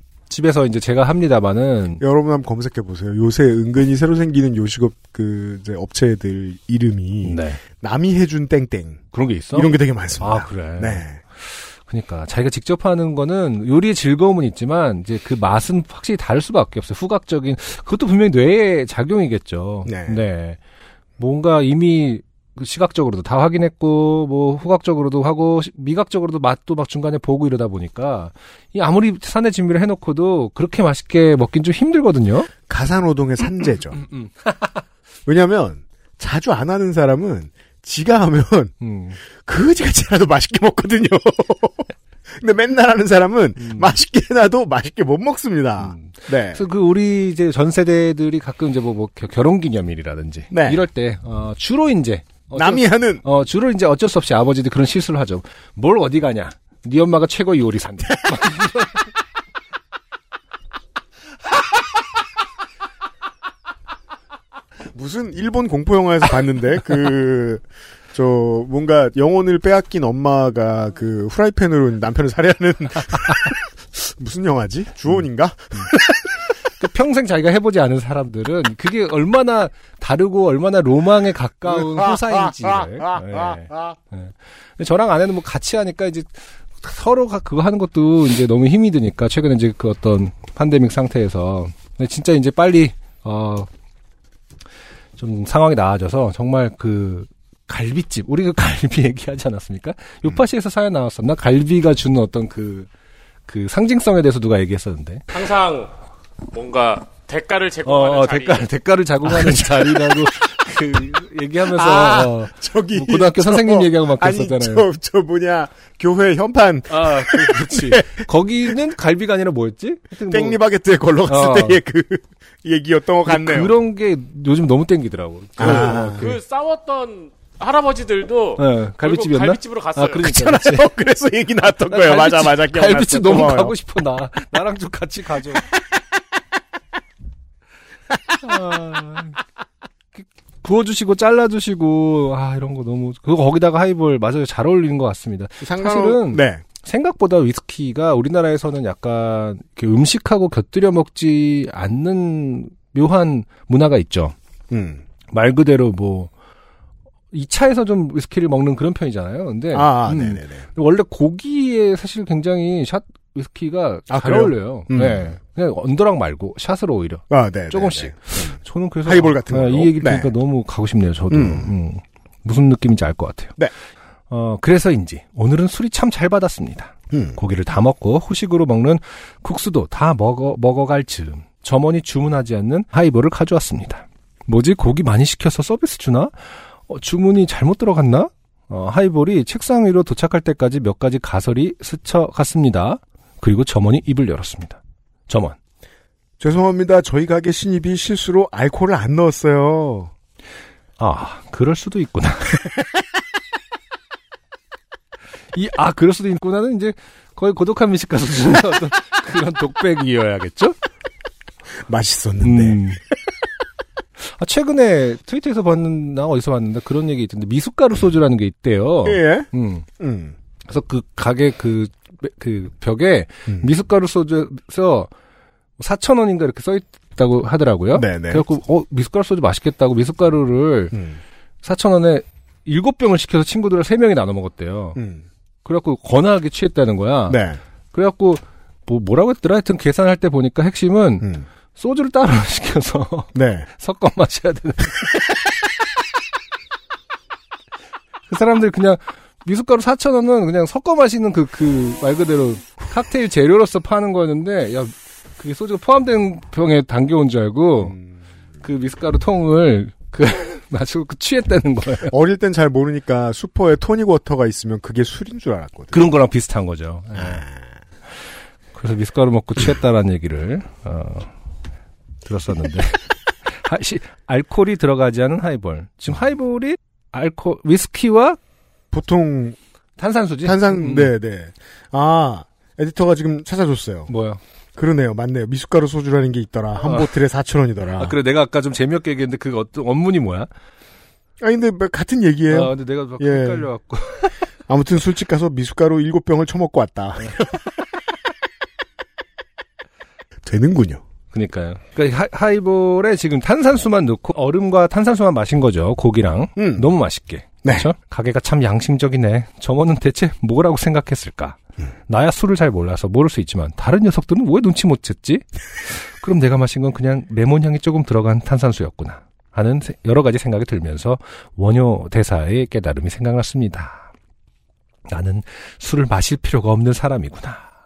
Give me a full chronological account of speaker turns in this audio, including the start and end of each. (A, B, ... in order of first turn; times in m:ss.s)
0:00.3-0:02.0 A
0:02.0-0:11.2 B
0:07.2-0:07.6 A
0:09.1-0:20.6 A
0:19.9-0:20.2 B
0:21.2-0:32.5 A
0:32.7-0:34.0 B
0:34.1-0:34.7 A
0:35.3-0:38.7 B
0:38.8-0:39.2 A
0:39.4-0:41.9 B
0:42.4-0:46.6 B
0:43.6-0:44.0 A
0:45.8-0:59.1 A
0:50.5-0:50.8 B
0:52.6-0:53.2 B
1:04.9-1:16.1 B
1:16.8-1:33.7 A
1:21.8-1:23.9 B
1:35.2-1:42.9 A
1:43.5-1:45.4 A
1:45.3-1:45.9 C
1:46.5-1:48.6 C
1:47.8-1:54.9 A
1:49.3-1:50.4 B
1:51.7-1:58.3 B
1:56.9-2:00.6 A
2:00.3-2:03.7 B
2:01.3-2:01.8 A
2:03.2-2:06.4 A
2:05.6-2:06.3 B
2:05.7-2:10.3 C
2:08.6-2:10.9 A
2:10.2-2:13.7 B
2:11.6-2:15.6 A
2:18.4-2:19.4 A
2:20.2-2:34.4 A
2:25.6-2:26.6 B
2:34.7-2:35.0 B
2:35.3-2:36.3 A
2:37.3-2:53.6 A
2:39.7-2:40.7 B
2:44.1-2:45.3 B
2:47.3-2:50.3 B
2:51.3-2:51.7 B
2:54.3-3:15.6 A
2:57.1-2:57.4 B
3:16.4-3:20.1 B
3:21.0-3:22.6 A
3:25.5-3:30.8 A
3:31.9-3:32.8 B
3:32.4-3:33.0 A
3:34.2-3:39.9 A
3:39.0-3:40.4 B
3:40.7-3:45.1 A
3:45.8-3:50.9 A
3:47.9-3:48.4 B
3:50.9-3:51.2 B
3:51.6-3:55.0 A
3:55.0-3:55.2 B
3:55.6-3:57.4 A
3:57.3-3:57.6 B
3:57.9-4:05.3 A
4:01.2-4:01.5 B
4:03.4-4:03.7 B
4:08.3-4:18.0 A
4:18.6-4:22.1 A
4:22.1-4:26.0 B
4:25.9-4:27.4 A
4:27.2-4:27.5 B
4:28.7-4:31.3 A
4:32.2-4:38.4 A
4:38.9-4:39.6 B
4:40.0-4:41.1 A
4:40.4-4:44.1 B
4:44.1-4:44.4 A
4:44.8-4:48.2 B
4:46.8-4:47.1 A
4:48.0-4:50.5 A
4:51.4-4:53.7 B
4:52.5-4:54.4 A
4:54.7-4:57.6 B
5:00.4-5:01.0 B
5:01.3-5:24.1 A
5:06.6-5:06.9 B
5:25.1-5:27.7 A